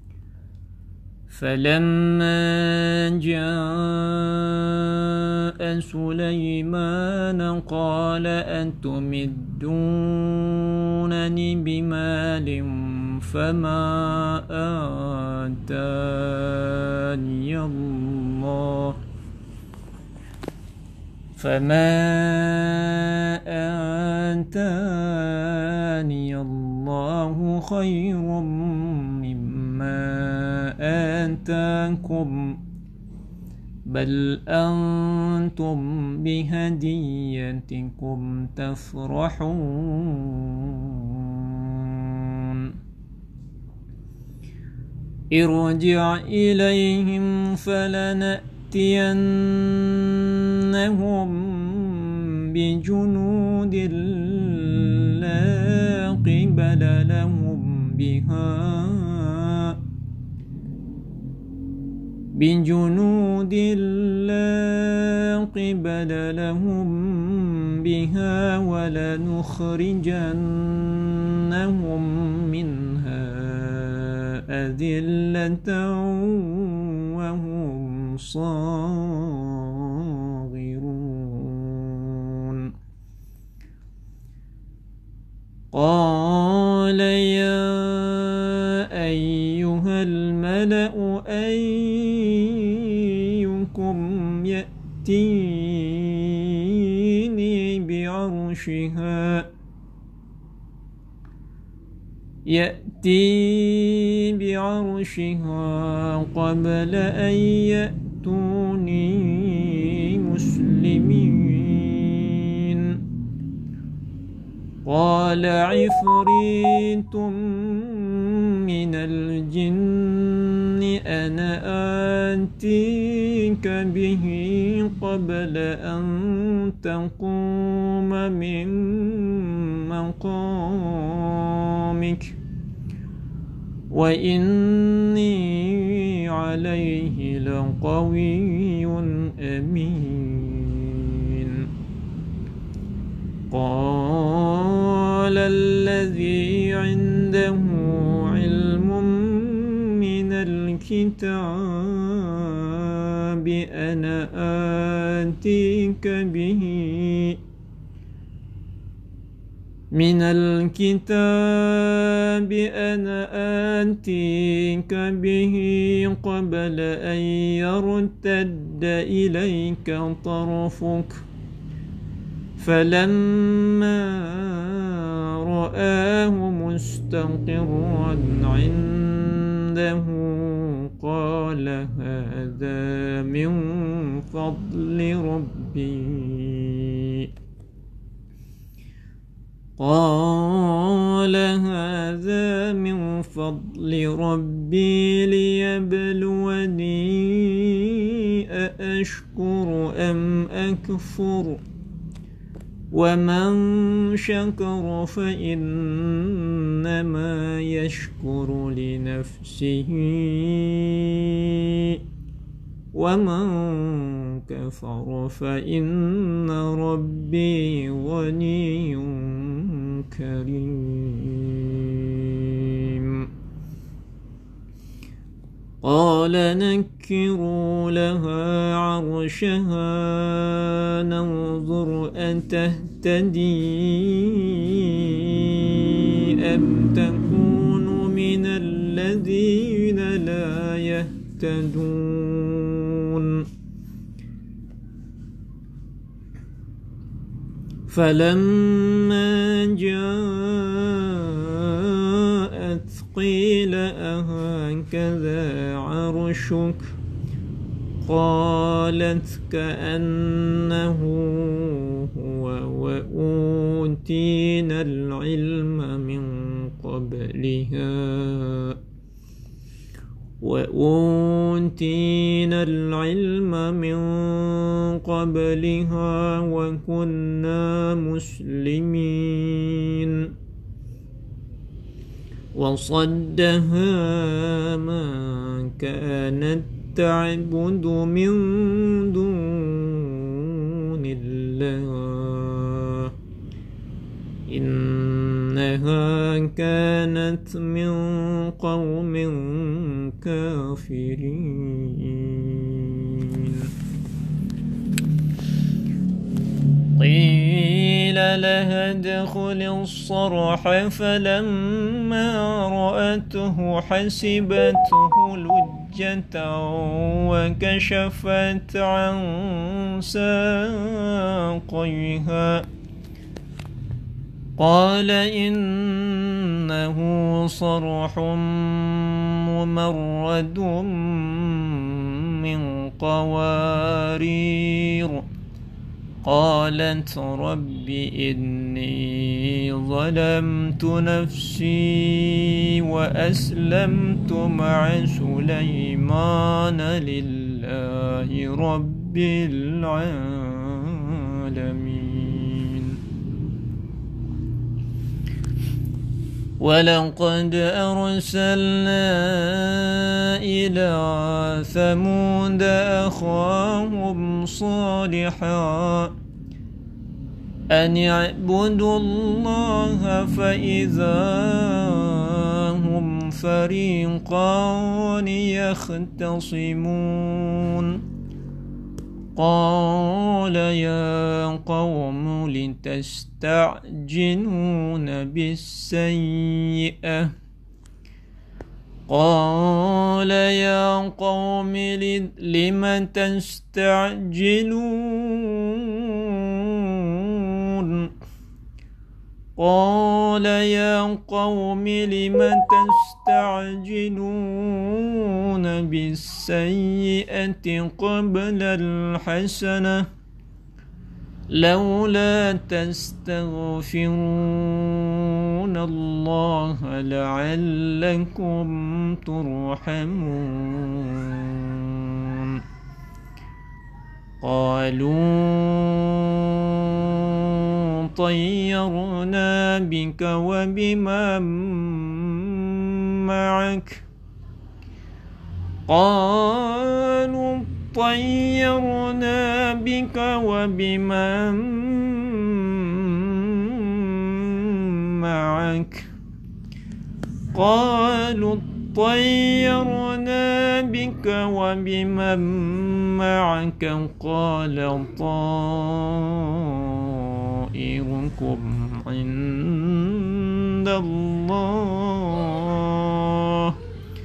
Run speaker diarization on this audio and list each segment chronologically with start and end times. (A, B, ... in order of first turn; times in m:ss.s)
0:01.3-0:19.0 A
0:21.4-0:32.6 A
0:33.9-0:42.8 A
0:45.3-0:59.8 A
1:02.3-1:22.7 A
1:25.7-1:39.5 A
1:42.5-1:53.0 A
1:54.8-2:12.4 A
2:13.9-2:21.7 A
2:23.5-2:37.4 A
2:39.9-2:51.2 A
2:52.6-3:07.3 A
3:09.8-3:21.6 A
3:22.9-3:32.0 A
3:32.9-3:43.3 A
3:45.8-4:03.5 A
4:07.9-4:16.9 A
4:18.0-4:28.8 A
4:30.4-4:40.3 A
4:42.5-4:53.1 A
4:54.5-5:03.7 A
5:07.0-5:22.7 A
5:24.6-5:35.3 A
5:36.2-5:53.0 A
5:56.6-6:06.1 A
6:07.7-6:18.0 A
6:19.4-6:27.3 A
6:29.1-6:38.1 A
6:39.6-6:50.1 A
6:51.5-7:02.6 A
7:04.4-7:14.1 A
7:15.9-7:26.1 A
7:27.5-7:43.8 A